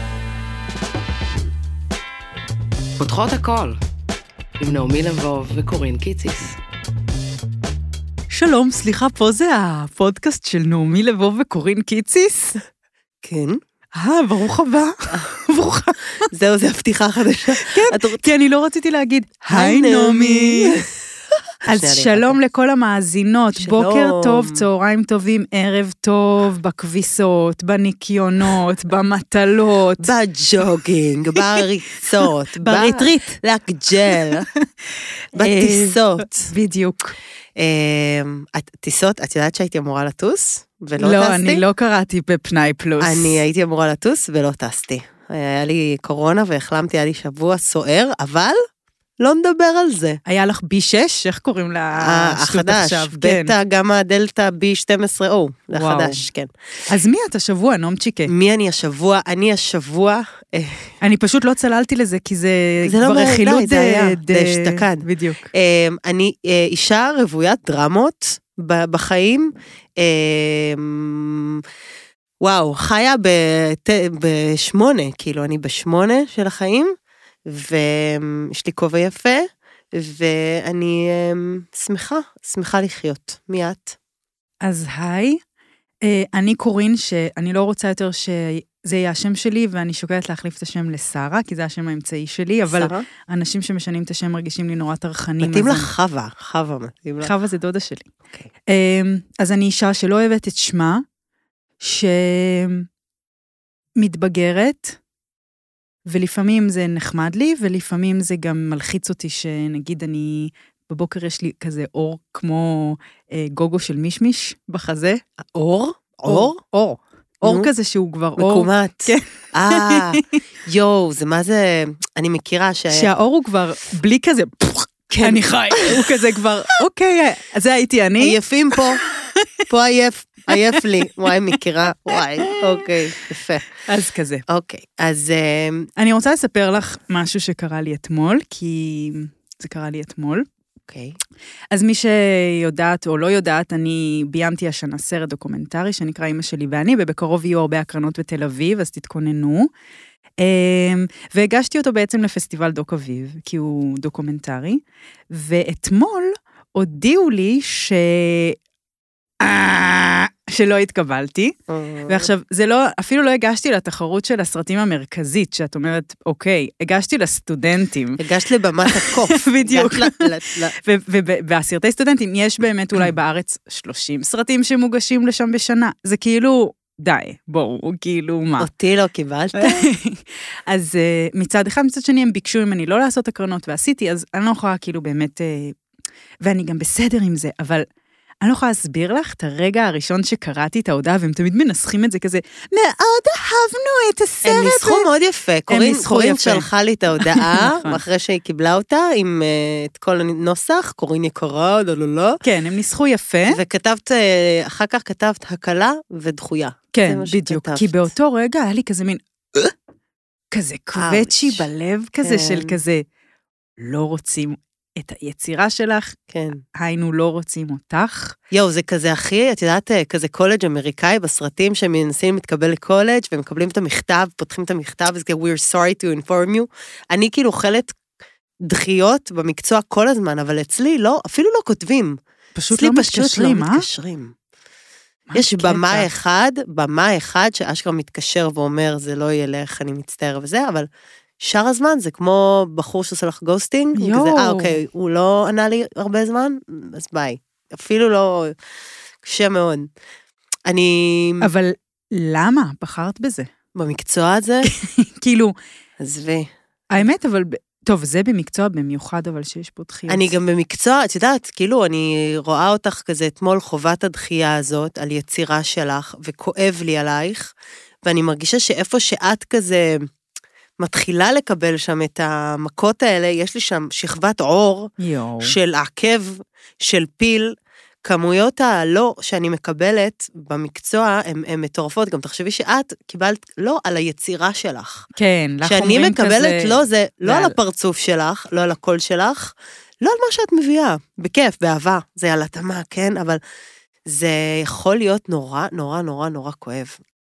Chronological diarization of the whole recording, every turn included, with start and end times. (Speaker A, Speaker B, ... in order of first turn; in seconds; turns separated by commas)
Speaker A: 3.0-3.8, Speaker A: 4.6-6.6, Speaker B: 8.3-12.6, Speaker C: 13.2-13.6, Speaker B: 13.9-16.3, Speaker C: 16.3-18.2, Speaker B: 17.6-20.8, Speaker C: 19.5-20.9, Speaker B: 21.6-30.1, Speaker C: 21.7-22.4, Speaker C: 23.6-24.6, Speaker C: 30.0-34.5, Speaker B: 32.6-33.4, Speaker B: 34.1-34.6, Speaker B: 35.3-37.1, Speaker C: 35.4-36.5, Speaker C: 37.5-41.6, Speaker B: 41.0-43.4, Speaker C: 43.0-48.5, Speaker C: 49.2-50.2, Speaker B: 50.2-53.5, Speaker C: 52.0-56.5, Speaker B: 55.7-56.2, Speaker B: 56.9-58.3, Speaker C: 58.3-60.9, Speaker B: 61.0-65.5, Speaker C: 62.9-71.6, Speaker C: 72.4-76.9, Speaker C: 77.5-83.9, Speaker B: 84.6-85.4, Speaker B: 86.0-95.9, Speaker C: 92.7-93.0, Speaker C: 95.4-97.3, Speaker B: 97.2-98.1, Speaker B: 98.7-101.0, Speaker B: 101.8-102.9, Speaker B: 104.0-105.0, Speaker B: 106.1-115.2, Speaker C: 115.5-116.6, Speaker B: 116.2-120.3, Speaker C: 117.4-117.7, Speaker C: 118.4-123.1, Speaker B: 122.9-128.4, Speaker C: 125.1-126.1, Speaker C: 128.2-129.0, Speaker C: 129.7-133.7, Speaker B: 130.5-130.8, Speaker B: 132.1-132.6, Speaker B: 133.8-134.4, Speaker C: 134.5-135.9, Speaker B: 136.0-140.4, Speaker C: 140.9-141.2, Speaker B: 141.7-149.7, Speaker B: 150.4-158.6, Speaker B: 159.4-161.5, Speaker C: 161.7-162.3, Speaker B: 162.1-168.2, Speaker C: 168.2-170.7, Speaker B: 168.8-170.2, Speaker B: 170.8-178.7, Speaker C: 178.6-179.9, Speaker B: 179.6-185.8, Speaker B: 186.4-187.8, Speaker B: 188.4-195.1, Speaker C: 194.4-202.4, Speaker B: 195.7-198.0, Speaker B: 202.4-203.6, Speaker C: 203.5-208.1, Speaker B: 206.9-209.7, Speaker B: 210.5-213.0, Speaker C: 210.9-211.7, Speaker C: 212.2-212.8, Speaker B: 213.8-216.2, Speaker C: 216.3-216.6, Speaker B: 216.7-218.3, Speaker C: 218.5-227.9, Speaker C: 228.6-232.2, Speaker B: 232.6-233.8, Speaker C: 232.7-234.3, Speaker B: 235.3-236.1, Speaker C: 235.3-240.9, Speaker C: 241.4-248.5, Speaker B: 243.9-244.8, Speaker C: 249.2-249.9, Speaker C: 250.7-251.5, Speaker B: 251.4-253.5, Speaker C: 253.7-254.7, Speaker B: 254.6-255.5, Speaker C: 256.0-256.5, Speaker B: 256.9-260.3, Speaker C: 260.1-267.5, Speaker C: 268.0-270.0, Speaker C: 270.8-277.5, Speaker B: 275.0-275.5, Speaker C: 278.0-285.1, Speaker B: 285.1-287.6, Speaker C: 285.6-293.4, Speaker C: 294.1-297.0